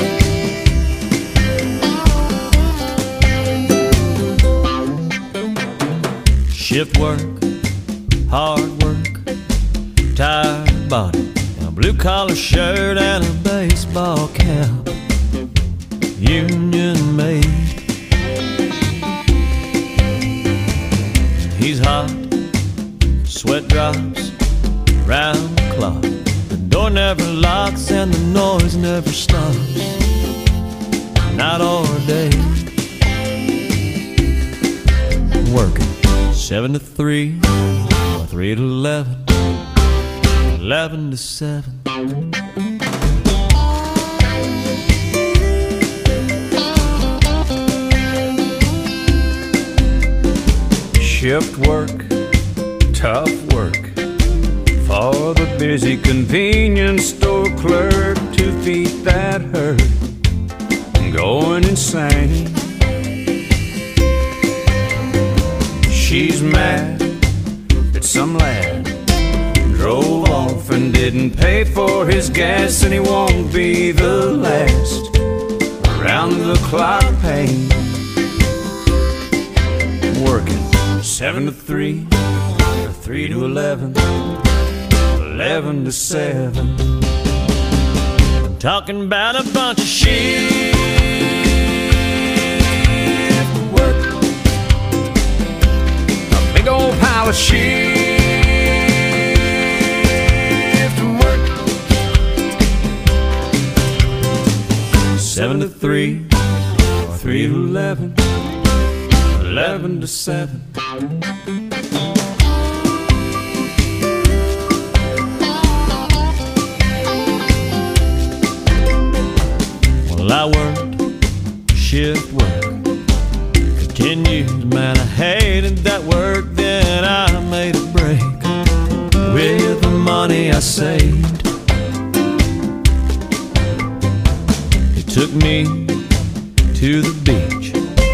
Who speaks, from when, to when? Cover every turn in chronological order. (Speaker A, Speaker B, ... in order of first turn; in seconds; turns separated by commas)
Speaker A: 6.5-7.5, Speaker A: 8.3-9.3, Speaker A: 10.1-14.9, Speaker A: 16.1-17.8, Speaker A: 21.3-22.3, Speaker A: 23.2-24.3, Speaker A: 25.0-30.0, Speaker A: 31.3-32.6, Speaker A: 35.4-39.3, Speaker A: 40.5-41.8, Speaker A: 50.9-52.1, Speaker A: 52.9-54.0, Speaker A: 54.8-60.0, Speaker A: 61.0-62.6, Speaker A: 65.9-67.2, Speaker A: 67.9-69.0, Speaker A: 69.6-75.1, Speaker A: 75.8-78.0, Speaker A: 80.1-82.2, Speaker A: 82.8-84.2, Speaker A: 85.1-87.0, Speaker A: 88.4-91.3, Speaker A: 93.2-94.0, Speaker A: 96.3-98.8, Speaker A: 100.7-101.4, Speaker A: 105.1-106.3, Speaker A: 107.0-108.2, Speaker A: 109.3-110.7, Speaker A: 120.0-121.1, Speaker A: 121.7-122.8, Speaker A: 123.8-128.5, Speaker A: 129.2-131.5, Speaker A: 134.9-136.0, Speaker A: 136.7-137.8